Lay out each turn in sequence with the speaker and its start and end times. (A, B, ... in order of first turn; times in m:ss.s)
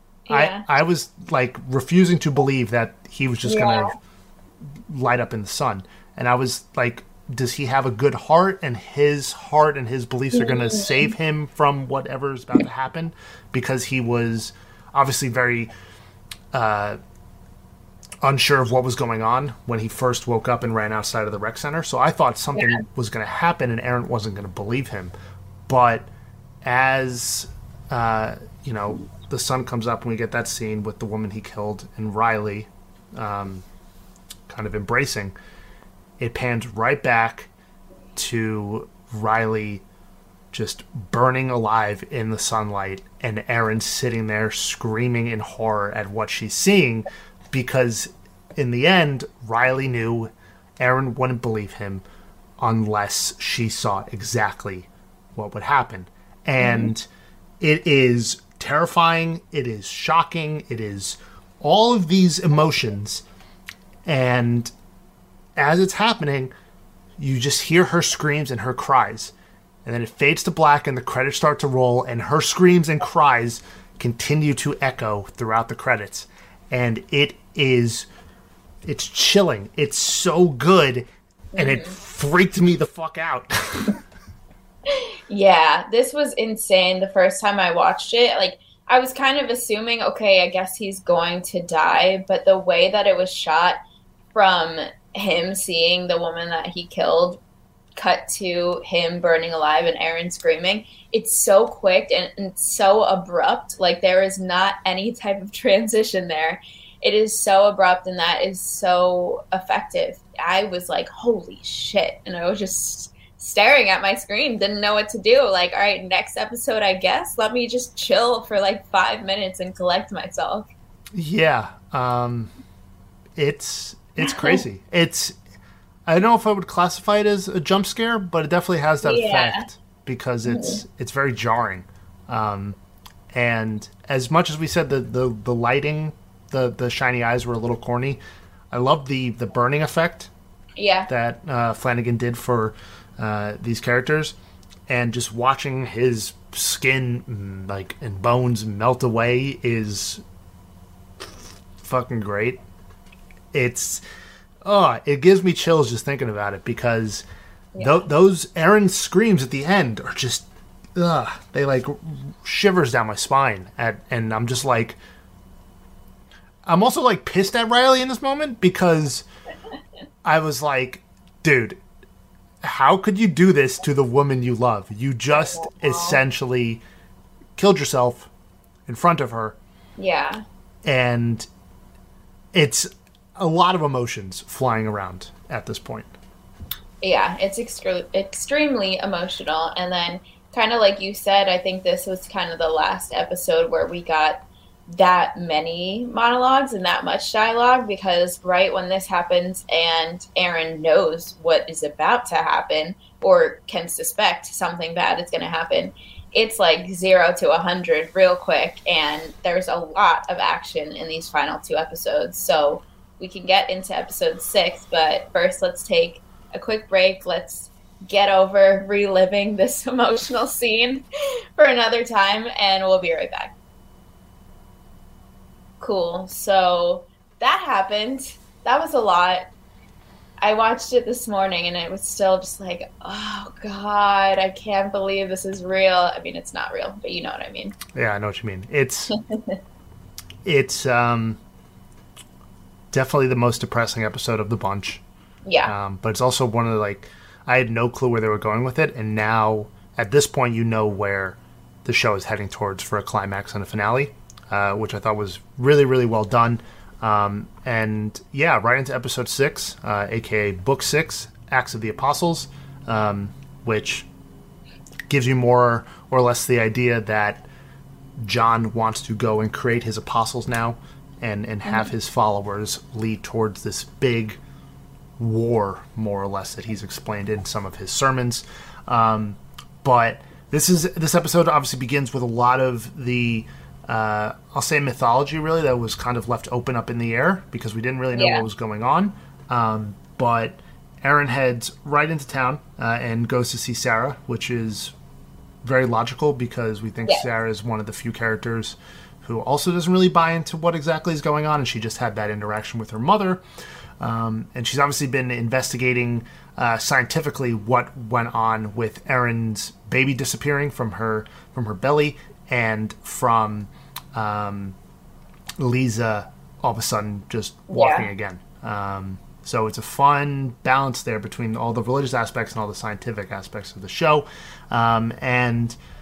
0:00.3-0:00.6 A
0:00.3-0:03.9 B
0:03.4-0:04.0 A
0:04.7-0:15.7 B
0:10.3-0:11.1 A
0:16.5-0:17.0 B
0:18.2-0:25.1 B
0:22.6-0:22.8 A
0:25.7-0:26.1 B
0:26.6-0:33.6 B
0:34.5-0:35.4 B
0:36.2-0:37.5 B
0:38.2-0:39.8 B
0:40.5-0:52.0 B
0:52.6-0:57.1 B
0:56.6-0:56.9 A
0:57.6-1:03.2 B
1:04.0-1:04.7 B
1:05.6-1:06.5 B
1:07.2-1:09.3 B
1:09.8-1:18.1 B
1:18.8-1:24.0 B
1:21.5-1:22.0 A
1:24.9-1:33.8 A
1:34.3-1:37.4 A
1:38.0-2:00.7 A
2:01.1-2:02.5 B
2:03.4-2:05.4 B
2:04.2-2:04.6 A
2:06.1-2:12.8 B
2:09.0-2:09.7 A
2:10.4-2:10.8 A
2:13.3-2:18.2 B
2:18.7-2:20.3 B
2:20.8-2:21.1 A
2:21.1-2:24.4 B
2:24.9-2:30.2 B
2:31.8-2:32.6 B
2:33.5-2:34.0 B
2:34.6-2:37.2 B
2:37.7-2:38.0 A
2:37.8-2:45.0 B
2:46.7-2:49.2 B
2:50.2-2:51.8 B
2:52.6-2:56.8 B
2:55.3-2:56.2 A
2:57.6-2:58.3 B
2:58.9-2:59.6 B
3:00.0-3:00.4 A
3:00.8-3:01.5 B
3:02.5-3:06.1 B
3:07.0-3:41.0 A
3:41.6-3:43.5 A
3:45.8-3:49.4 A
3:50.4-3:57.8 A
3:57.9-3:59.1 B
3:59.2-3:59.6 A
4:00.4-4:01.4 B
4:02.9-4:05.0 B
4:05.4-4:05.7 A
4:05.6-4:24.1 B
4:25.1-4:27.4 B
4:28.2-4:34.4 B
4:31.6-4:31.9 A
4:35.2-4:54.9 B
4:48.1-4:48.5 A
4:55.6-5:03.4 B
5:04.0-5:14.8 B
5:15.6-5:25.8 B
5:17.7-5:18.1 A